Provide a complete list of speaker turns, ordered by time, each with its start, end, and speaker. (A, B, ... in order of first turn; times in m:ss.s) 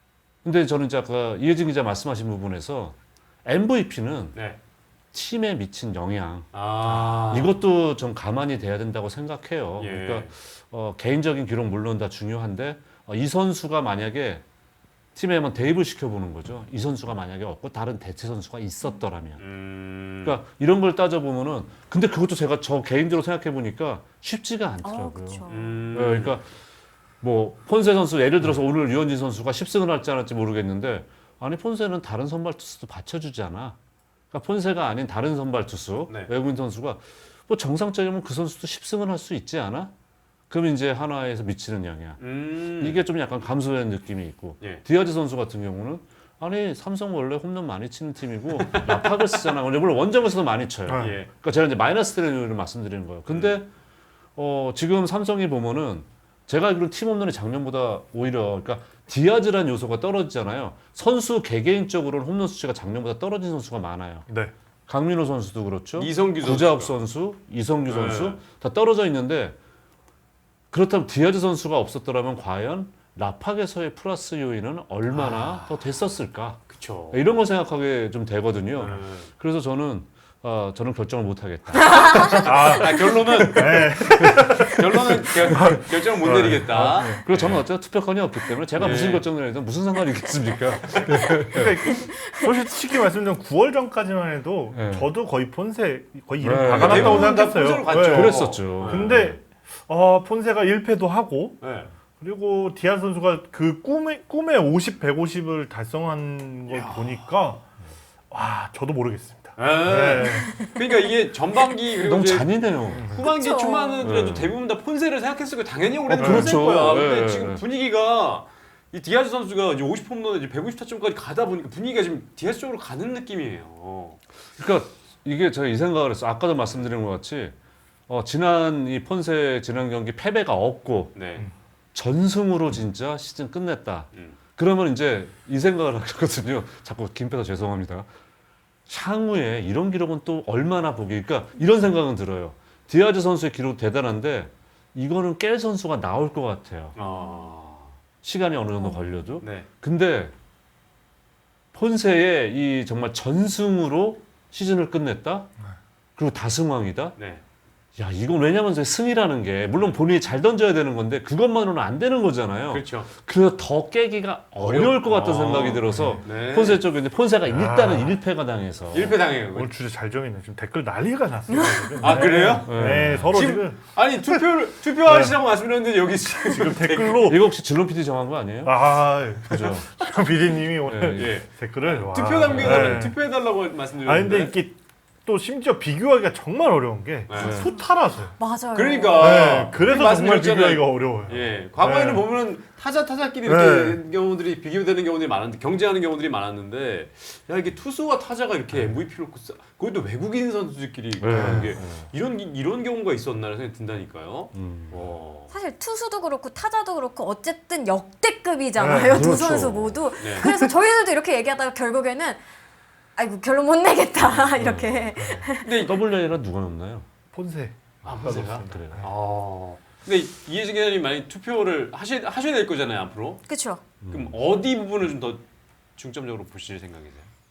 0:00.4-0:04.4 A
0:05.1-0:14.4 A
0:06.5-0:07.6 B
0:09.8-0:10.3 B
0:15.2-0:19.4 A
0:19.4-0:20.4 B
0:20.2-0:26.5 A
0:24.8-0:25.8 C
0:25.5-0:26.4 B
0:27.2-0:33.8 A
0:34.3-0:39.9 A
0:40.5-0:53.7 A
0:42.2-0:43.0 B
0:48.7-0:49.5 B
0:50.9-0:51.2 D
0:51.0-0:51.3 B
0:53.3-0:53.6 B
0:54.4-1:04.3 A
1:04.3-1:04.5 D
1:04.9-1:09.6 A
1:06.0-1:07.0 B
1:07.9-1:08.4 B
1:10.7-1:22.4 A
1:15.1-1:15.9 B
1:16.7-1:17.2 B
1:18.8-1:19.3 B
1:21.9-1:22.3 C
1:22.1-1:27.6 B
1:22.4-1:27.2 D
1:26.7-1:31.8 A
1:28.8-1:29.3 B
1:30.8-1:31.4 B
1:31.5-1:47.6 D
1:31.9-1:32.4 C
1:34.7-1:35.1 A
1:36.4-1:39.4 A
1:36.6-1:39.2 B
1:41.6-1:41.9 B
1:46.7-1:47.3 B
1:48.3-1:50.5 D
1:49.6-2:04.2 B
1:50.3-1:50.8 C
1:52.0-1:53.1 A
1:52.9-1:53.3 D
1:53.2-1:54.1 C
1:54.0-1:54.6 A
1:56.1-1:57.6 A
1:56.1-1:56.6 D
2:04.6-2:07.6 A
2:08.1-2:11.2 A
2:11.2-2:11.4 B
2:11.9-2:18.1 A
2:18.9-2:27.0 A
2:27.0-2:28.0 B
2:27.0-2:27.5 C
2:28.2-2:30.3 A
2:28.8-2:29.2 C
2:29.4-2:29.7 B
2:31.7-2:35.5 A
2:36.2-2:37.2 A
2:37.2-2:37.4 B
2:38.0-2:49.2 A
2:42.7-2:43.1 B
2:44.6-2:46.8 B
2:45.9-2:46.2 D
2:47.5-2:48.2 D
2:48.9-2:49.7 B
2:49.5-2:54.4 D
2:51.5-2:52.2 C
2:52.0-2:52.8 B
2:52.7-2:53.4 A
2:53.3-2:57.3 B
2:55.0-2:55.4 D
2:56.3-2:57.4 D
2:57.2-2:59.9 A
2:58.6-3:03.2 D
3:00.9-3:01.4 A
3:01.2-3:04.6 B
3:02.4-3:03.0 A
3:04.0-3:08.4 D
3:07.3-3:07.7 B
3:07.4-3:07.7 A
3:08.4-3:09.5 C
3:08.7-3:25.5 B
3:09.2-3:12.3 D
3:13.4-3:14.0 D
3:21.2-3:22.1 A
3:21.3-3:21.7 D
3:24.5-3:25.0 A
3:25.5-3:32.4 C
3:28.8-3:29.4 D
3:29.1-3:30.1 A
3:30.2-3:30.5 B
3:33.2-3:35.9 C
3:34.6-3:37.1 A
3:35.2-3:35.5 D
3:35.6-3:36.0 B
3:37.3-3:39.0 D
3:38.0-3:43.4 B
3:38.1-3:39.0 A
3:43.5-3:43.8 C
3:44.0-3:44.4 A
3:44.1-3:45.4 B
3:46.0-3:47.3 B